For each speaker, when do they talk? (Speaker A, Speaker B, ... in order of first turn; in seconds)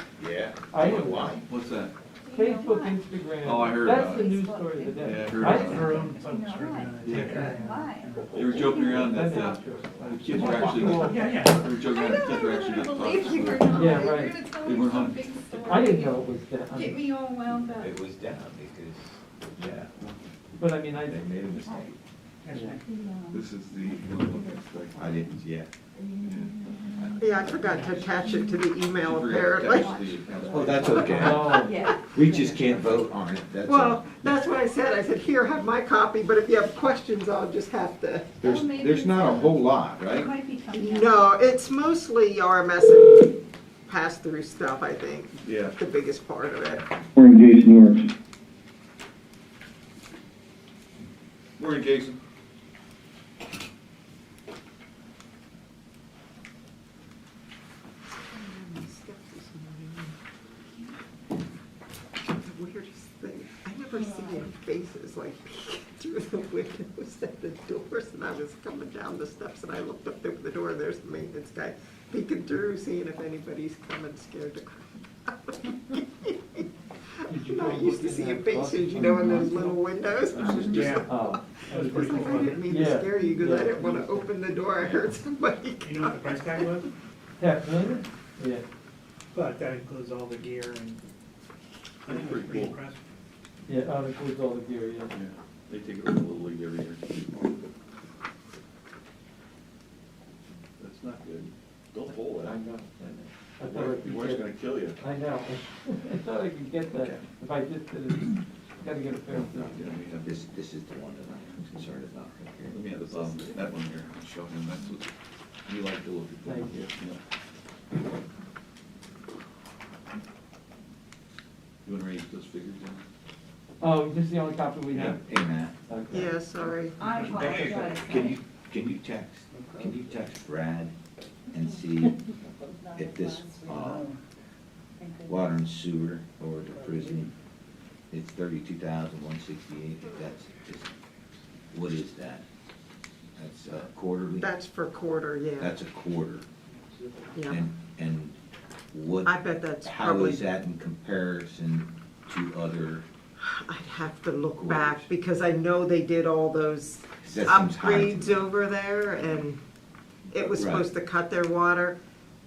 Speaker A: 0.2-1.4, 10.3-11.2, 17.7-19.9, 21.1-22.0, 25.0-25.7, 30.5-34.4, 38.4-40.3, 106.9-107.2, 110.2-113.4, 115.7-116.5, 125.0-125.8, 127.3-130.9, 131.5-132.2, 132.9-134.1, 135.3-137.3, 138.1-140.9, 141.7-142.5, 143.4-144.5, 145.6-146.5, 147.5-148.4, 148.9-153.1, 154.6-155.1, 157.2-158.5, 160.4-160.9
Speaker B: 0.7-1.4, 2.3-5.8, 8.9-11.3, 13.6-14.4, 15.6-17.0, 20.6-21.2, 31.1-31.7, 77.3-84.3, 87.4-88.6, 93.7-95.1, 102.4-104.5, 105.0-109.8, 116.5-116.9, 123.8-125.2, 125.9-126.3, 127.5-127.9
Speaker C: 1.5-1.9, 3.4-4.3, 5.0-6.1, 7.0-7.6, 8.3-15.4, 23.3-25.2, 26.2-27.9, 29.0-31.1, 45.4-45.8, 47.1-48.1, 51.6-52.2, 92.0-92.8, 95.1-97.1, 100.8-102.6, 103.6-105.0, 109.6-110.4, 112.7-115.1, 115.7-117.2, 121.8-123.0, 124.9-125.2, 127.2-127.9
Speaker D: 2.2-3.0, 3.9-9.8, 11.6-17.9, 21.6-21.9, 22.6-25.4, 25.9-28.7, 29.6-33.0, 38.4-41.3, 63.9-64.5, 79.0-79.5, 80.4-80.8, 127.0-128.4, 132.9-133.7, 135.0-135.3
Speaker E: 5.6-8.5, 10.9-11.7, 22.4-22.8, 80.6-81.2, 81.7-82.8, 85.8-86.9, 89.3-91.0, 92.1-93.0
Speaker F: 27.2-30.1, 30.8-32.0, 33.7-38.4, 40.7-43.4, 43.9-46.9, 58.2-60.2, 62.4-76.7, 77.2-86.8, 126.1-127.0, 144.4-145.8, 147.3-147.6, 149.2-150.4, 153.4-159.6, 160.3-162.0